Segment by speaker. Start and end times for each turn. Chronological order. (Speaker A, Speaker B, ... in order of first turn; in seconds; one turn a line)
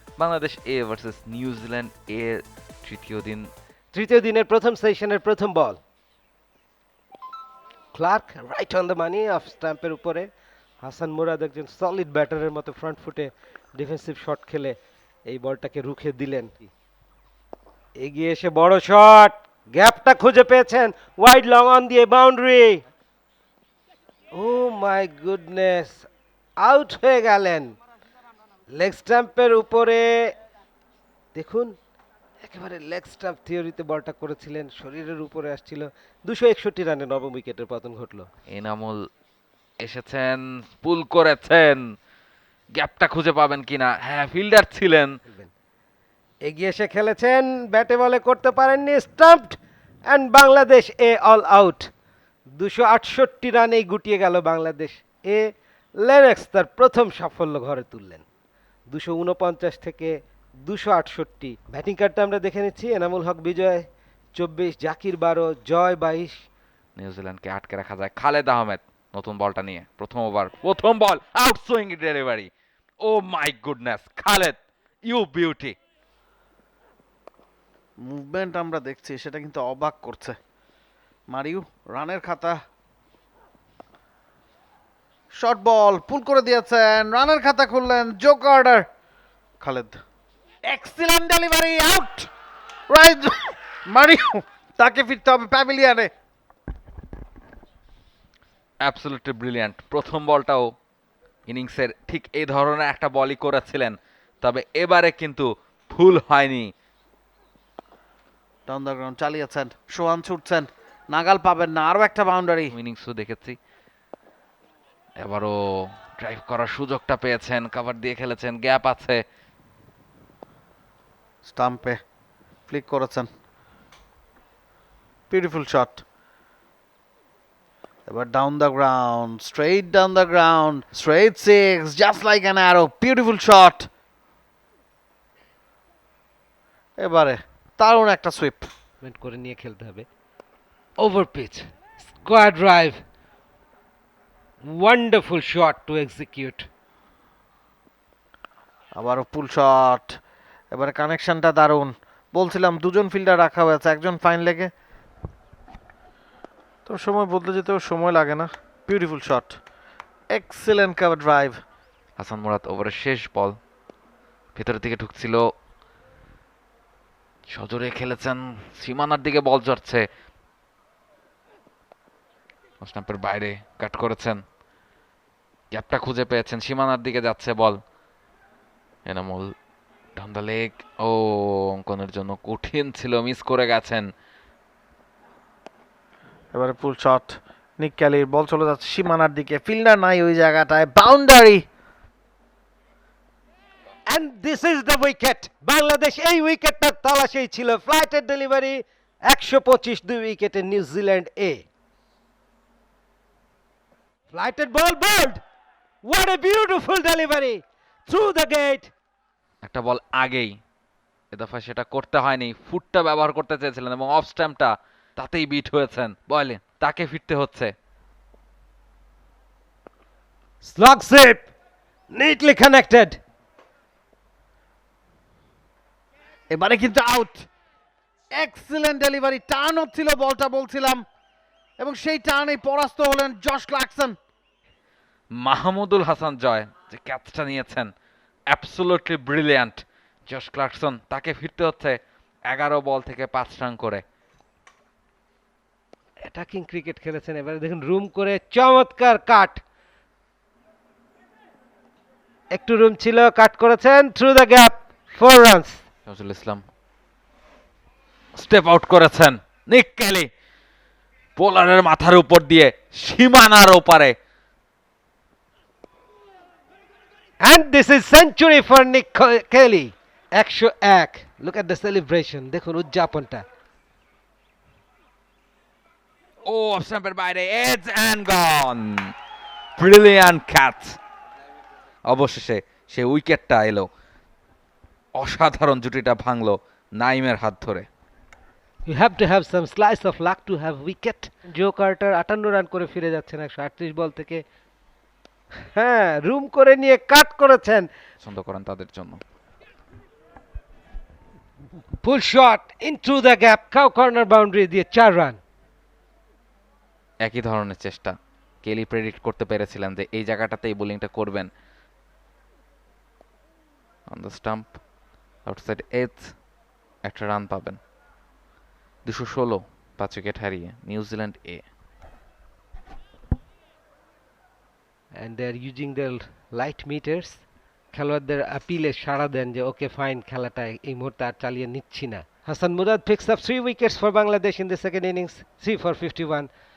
Speaker A: 0.2-3.5
Speaker B: 3.9-5.8
Speaker B: 7.9-10.3
Speaker B: 10.8-14.8
Speaker B: 15.3-16.7
Speaker B: 18.0-22.8
Speaker B: 24.3-26.1
Speaker B: 26.6-27.8
Speaker B: 28.7-30.3
Speaker B: 31.3-31.7
Speaker B: 32.4-38.3
Speaker A: 38.5-39.0
Speaker A: 39.8-41.8
Speaker A: 42.7-45.2
Speaker B: 45.3-45.5
Speaker B: 46.4-51.9
Speaker B: 52.5-58.2
Speaker B: 58.9-66.5
Speaker A: 67.0-72.5
Speaker A: 73.0-75.8
Speaker C: 78.0-80.4
Speaker C: 81.3-82.6
Speaker C: 85.3-88.9
Speaker C: 89.6-90.0
Speaker C: 90.7-92.3
Speaker C: 92.9-96.1
Speaker A: 98.8-100.7
Speaker A: 101.5-106.7
Speaker C: 108.7-112.8
Speaker A: 112.7-113.6
Speaker A: 115.2-119.2
Speaker C: 121.4-122.0
Speaker C: 122.7-123.3
Speaker C: 125.3-126.0
Speaker C: 128.1-133.9
Speaker C: 137.0-138.7
Speaker B: 139.0-140.1
Speaker B: 141.0-143.0
Speaker B: 144.6-146.7
Speaker C: 149.0-150.2
Speaker C: 150.7-154.7
Speaker C: 156.9-159.6
Speaker C: 160.3-161.6
Speaker A: 162.2-163.6
Speaker A: 164.6-165.4
Speaker A: 167.5-170.1
Speaker A: 172.8-174.4
Speaker A: 175.7-177.8
Speaker A: 179.1-179.5
Speaker A: 180.2-184.1
Speaker C: 186.5-191.7
Speaker B: 194.1-201.6
Speaker B: 204.3-205.4
Speaker B: 206.0-208.9
Speaker A: 209.6-210.6
Speaker A: 211.3-217.7
Speaker B: 220.6-221.5
Speaker B: 222.1-223.2
Speaker C: 226.5-227.5
Speaker C: 228.3-231.0
Speaker C: 231.8-234.2
Speaker A: 235.4-237.9
Speaker A: 238.5-242.0
Speaker A: 242.5-244.0
Speaker B: 246.2-249.6
Speaker B: 252.5-255.8
Speaker A: 256.1-256.6
Speaker A: 258.4-260.3
Speaker A: 261.4-264.1
Speaker B: 267.4-273.4
Speaker A: 276.4-279.1
Speaker A: 279.8-281.0
Speaker A: 282.1-283.9
Speaker A: 285.1-287.9
Speaker B: 288.9-294.4
Speaker B: 295.7-297.9
Speaker A: 298.2-299.2
Speaker B: 302.0-305.4
Speaker A: 307.2-311.5
Speaker A: 314.1-314.8
Speaker A: 315.4-316.3
Speaker A: 317.0-317.8
Speaker A: 319.0-321.6
Speaker B: 325.1-336.5